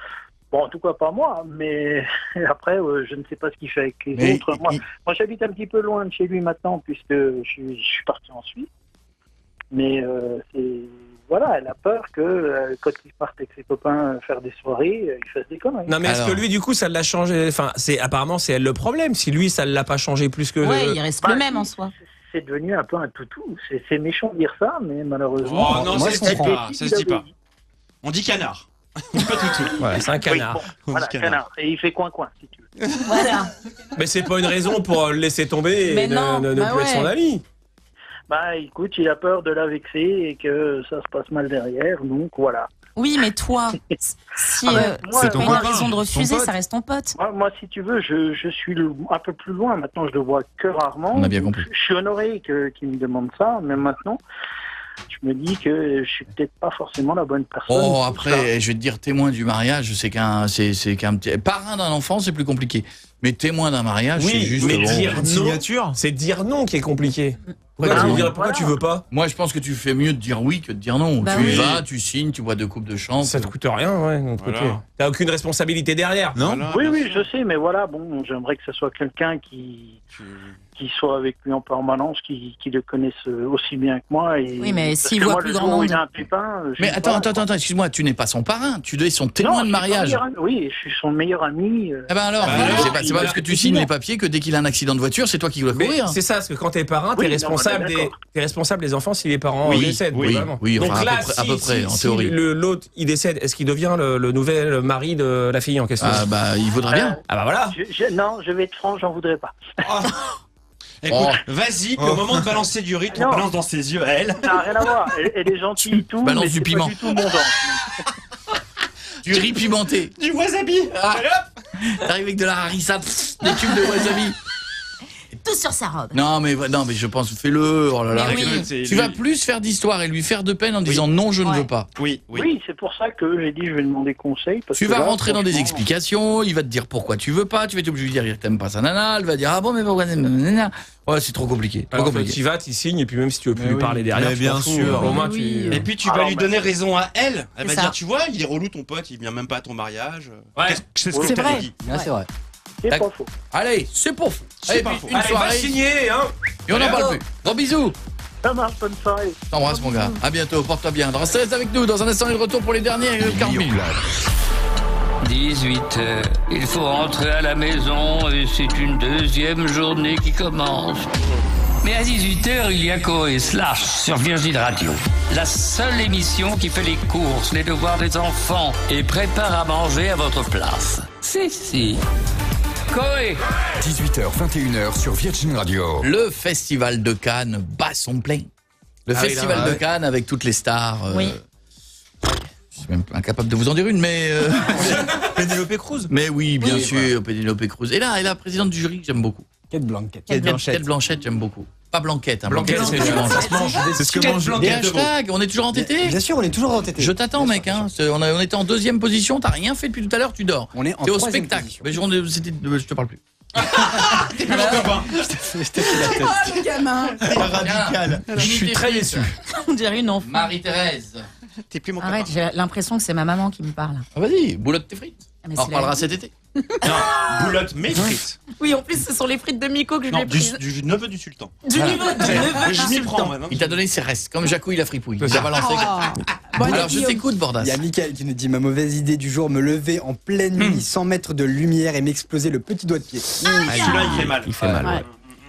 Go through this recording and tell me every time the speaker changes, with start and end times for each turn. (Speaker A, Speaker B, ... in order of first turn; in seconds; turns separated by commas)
Speaker A: 0.5-8.7, Speaker B: 4.2-4.8, Speaker A: 9.7-15.9, Speaker C: 15.9-21.0, Speaker B: 16.1-16.4, Speaker D: 20.6-21.9, Speaker A: 21.2-21.6, Speaker A: 22.3-27.3, Speaker E: 25.5-27.2, Speaker F: 25.6-26.6, Speaker E: 28.0-31.4, Speaker C: 29.8-30.7, Speaker A: 30.9-32.7, Speaker D: 33.0-33.5, Speaker C: 34.0-37.4, Speaker D: 35.9-36.5, Speaker G: 36.5-37.1, Speaker A: 38.3-42.7, Speaker D: 43.0-47.1, Speaker A: 44.7-45.8, Speaker H: 44.7-46.5, Speaker A: 47.1-54.2, Speaker B: 51.1-51.7, Speaker A: 55.1-58.5, Speaker B: 57.7-65.2, Speaker C: 64.2-69.0, Speaker H: 64.6-66.0, Speaker B: 67.8-68.4, Speaker A: 67.9-68.8, Speaker B: 69.1-73.5, Speaker D: 71.2-71.8, Speaker C: 73.2-76.4, Speaker E: 74.4-74.8, Speaker H: 76.3-76.7, Speaker E: 76.4-77.2, Speaker A: 76.7-80.0, Speaker E: 80.1-80.6, Speaker A: 80.8-87.5, Speaker D: 84.6-86.0, Speaker B: 86.8-90.2, Speaker A: 89.4-93.4, Speaker B: 92.1-96.2, Speaker C: 92.5-93.8, Speaker C: 95.7-106.3, Speaker A: 97.1-98.2, Speaker E: 99.7-100.5, Speaker B: 100.3-102.3, Speaker B: 106.0-107.2, Speaker A: 106.9-107.2, Speaker C: 107.3-107.8, Speaker A: 107.7-109.5, Speaker E: 111.0-114.5, Speaker B: 111.1-111.4, Speaker H: 112.0-112.5, Speaker A: 113.1-113.5, Speaker A: 114.4-117.8, Speaker B: 115.8-117.1, Speaker B: 119.2-120.1, Speaker E: 120.2-121.5, Speaker B: 121.0-121.2, Speaker B: 121.8-124.4, Speaker D: 125.3-126.2, Speaker B: 126.1-131.9, Speaker D: 128.2-128.7, Speaker E: 128.2-129.2, Speaker E: 132.0-132.5, Speaker A: 132.3-135.8, Speaker B: 134.8-142.4, Speaker C: 141.9-145.9, Speaker F: 143.6-144.1, Speaker H: 144.1-145.2, Speaker G: 145.0-145.9, Speaker E: 145.7-151.8, Speaker A: 146.1-146.6, Speaker D: 147.6-148.0, Speaker C: 150.6-150.8, Speaker A: 151.1-151.4, Speaker G: 151.2-151.7, Speaker F: 151.8-152.3, Speaker A: 152.8-153.3, Speaker B: 152.9-155.8, Speaker E: 154.6-155.2, Speaker C: 155.1-157.0, Speaker B: 156.7-157.9, Speaker A: 158.4-159.4, Speaker B: 159.5-163.9, Speaker G: 159.8-160.2, Speaker I: 163.2-164.0, Speaker J: 165.2-171.1, Speaker J: 171.8-182.0, Speaker J: 182.9-183.4, Speaker I: 183.8-186.0, Speaker B: 186.0-188.5, Speaker B: 189.1-191.4, Speaker H: 189.3-189.8, Speaker C: 189.3-189.6, Speaker B: 192.7-195.0, Speaker H: 194.9-196.1, Speaker B: 196.1-199.5, Speaker F: 196.6-197.1, Speaker F: 199.7-200.6, Speaker H: 200.3-200.8, Speaker B: 200.3-203.6, Speaker C: 202.5-203.9, Speaker H: 202.7-205.1, Speaker F: 202.7-204.6, Speaker D: 203.3-203.8, Speaker E: 204.2-204.8, Speaker B: 204.4-206.2, Speaker F: 205.7-207.9, Speaker B: 207.0-213.2, Speaker F: 210.7-211.8, Speaker E: 213.6-215.3, Speaker B: 214.5-215.0, Speaker F: 214.7-216.6, Speaker G: 215.9-217.2, Speaker H: 217.2-219.1, Speaker B: 217.3-219.3, Speaker C: 218.4-219.3, Speaker D: 219.5-220.5, Speaker B: 220.2-221.3, Speaker E: 221.7-222.3, Speaker D: 222.0-224.1, Speaker B: 224.1-226.3, Speaker D: 225.4-226.1, Speaker E: 226.8-228.4, Speaker D: 226.9-227.6, Speaker D: 228.5-230.6, Speaker E: 230.1-233.8, Speaker D: 231.7-233.4, Speaker B: 231.7-232.6, Speaker G: 231.9-232.4, Speaker B: 233.5-236.1, Speaker G: 235.6-237.2, Speaker B: 236.6-237.8, Speaker F: 237.6-244.2, Speaker B: 240.6-240.8, Speaker E: 243.6-245.1, Speaker D: 243.7-244.4, Speaker C: 244.5-244.9